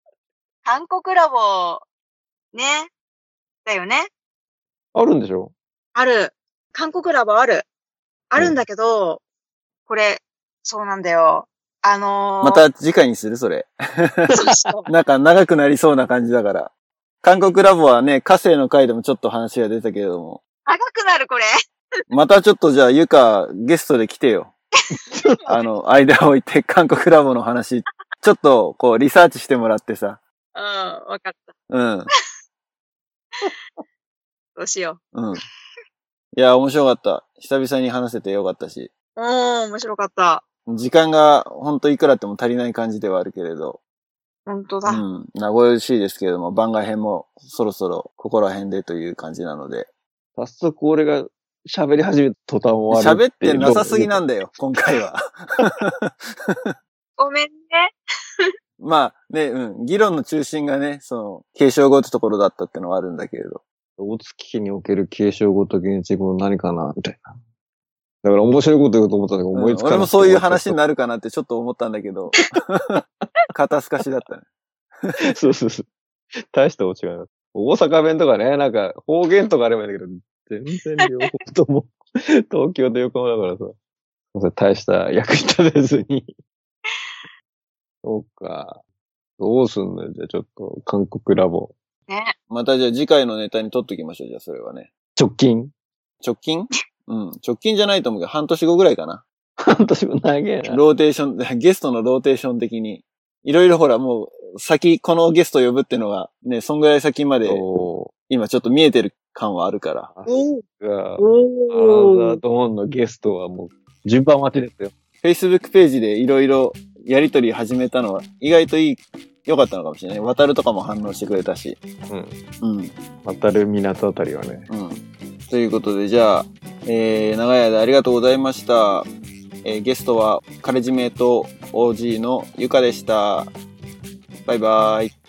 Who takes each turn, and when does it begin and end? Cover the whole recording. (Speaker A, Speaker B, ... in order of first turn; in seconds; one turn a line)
Speaker A: 0.6-1.9
Speaker A: 2.5-2.9
Speaker A: 3.6-4.1
Speaker B: 4.9-5.5
Speaker A: 5.9-7.7
Speaker A: 8.3-9.2
Speaker A: 9.9-12.6
Speaker C: 12.4-14.3
Speaker A: 14.3-14.9
Speaker B: 14.3-14.7
Speaker C: 14.9-20.4
Speaker A: 20.6-21.5
Speaker C: 22.1-24.5
Speaker B: 25.1-25.4
Speaker C: 25.5-30.2
Speaker A: 30.6-31.5
Speaker C: 31.7-32.1
Speaker A: 34.6-35.0
Speaker C: 35.1-35.4
Speaker C: 36.3-38.9
Speaker A: 39.2-40.4
Speaker C: 40.7-43.8
Speaker A: 44.5-45.0
Speaker C: 44.9-49.9
Speaker B: 50.4-54.2
Speaker C: 52.9-56.7
Speaker A: 57.2-57.9
Speaker C: 58.8-63.6
Speaker B: 64.0-67.4
Speaker B: 68.2-70.8
Speaker C: 69.5-73.0
Speaker C: 73.5-74.5
Speaker B: 75.3-75.9
Speaker B: 76.5-83.8
Speaker B: 84.3-86.3
Speaker B: 88.0-88.8
Speaker B: 89.4-91.7
Speaker A: 92.1-92.3
Speaker C: 92.5-94.9
Speaker B: 95.2-95.7
Speaker C: 96.2-99.2
Speaker B: 99.6-100.8
Speaker C: 100.7-107.6
Speaker B: 107.5-108.1
Speaker C: 108.3-110.1
Speaker B: 110.1-114.9
Speaker A: 110.3-110.6
Speaker A: 111.2-112.4
Speaker C: 115.2-121.8
Speaker B: 122.1-122.4
Speaker C: 122.6-122.9
Speaker B: 123.2-124.7
Speaker C: 124.7-129.1
Speaker C: 129.6-133.5
Speaker C: 134.5-135.1